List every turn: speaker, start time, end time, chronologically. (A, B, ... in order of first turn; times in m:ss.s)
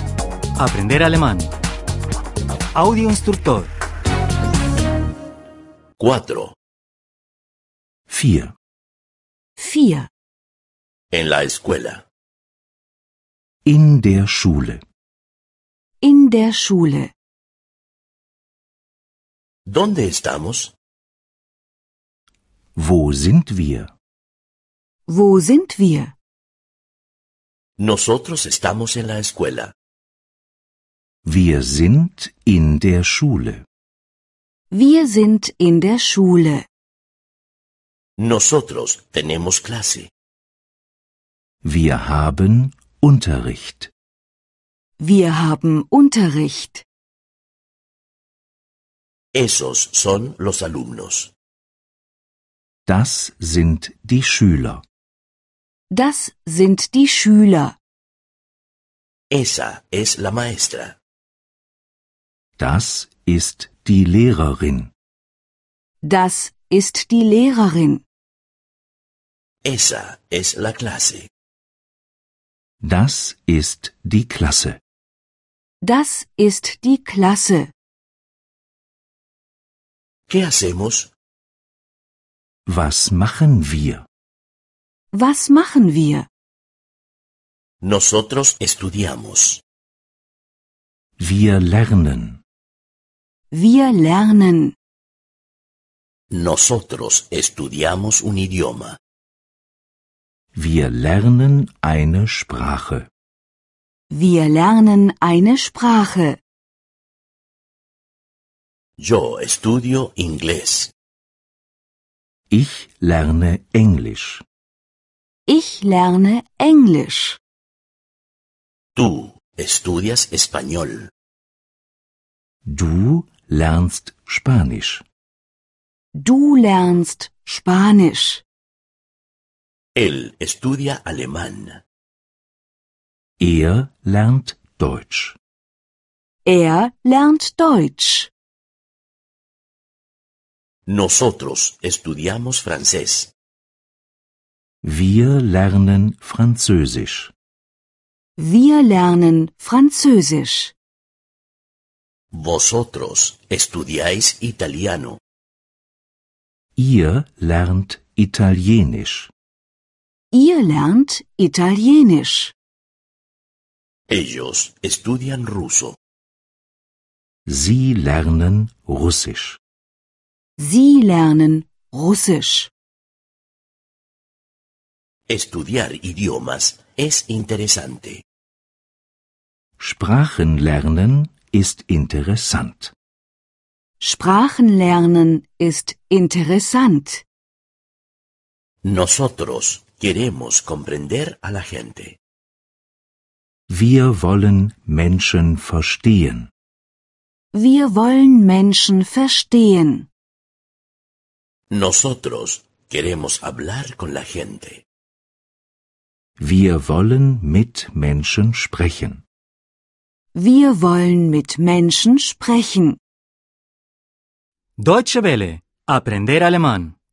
0:00.6-0:01.5 A
0:02.7-0:03.7 A
0:06.0-0:06.6 B
0:08.1-0:08.5 C
0:09.6-0:10.1 D
0:11.1-0:12.0 B
0:13.6-0:14.8 C
0:16.0-0:17.1 D
0:19.7-0:20.7 B
0:22.8-0:23.9 C
0:25.1-0:26.1 D
0:27.8-0:29.7 B
0:31.2-0:33.6 C
0:34.7-0:36.6 D
0:38.2-0:40.1 B
0:41.6-0:43.9 C
0:45.0-0:46.8 D
0:49.3-0:51.3 B
0:52.8-0:54.8 C
0:55.9-0:57.8 D
0:59.3-1:01.0 B
1:02.6-1:04.9 C
1:06.0-1:08.0 D
1:09.6-1:11.3 B
1:12.8-1:14.8 C
1:15.8-1:17.7 D
1:20.3-1:21.1 B
1:22.6-1:24.0 C
1:25.1-1:26.3 D
1:27.8-1:29.6 B
1:31.2-1:32.4 C
1:33.5-1:34.7 D
1:36.3-1:39.0 B
1:40.5-1:43.1 C
1:44.1-1:46.4 D
1:49.0-1:50.9 B
1:52.5-1:54.4 C
1:55.5-1:57.4 D
1:59.0-2:01.1 B
2:02.6-2:05.0 C
2:06.2-2:08.4 D
2:10.0-2:11.8 B
2:13.4-2:15.4 C
2:16.4-2:18.3 D
2:20.9-2:23.3 B
2:24.8-2:27.3 C
2:28.4-2:30.7 D
2:32.3-2:35.2 B
2:36.8-2:39.3 C
2:40.3-2:42.5 D
2:44.1-2:46.0 B
2:47.5-2:49.6 C
2:50.6-2:52.7 D
2:55.3-2:58.2 B
2:59.8-3:02.9 C
3:04.0-3:07.2 D
3:08.8-3:12.2 B
3:13.7-3:16.5 C
3:17.5-3:20.1 D
3:21.7-3:24.8 B
3:26.4-3:29.2 C
3:30.3-3:33.0 D
3:34.8-3:36.9 A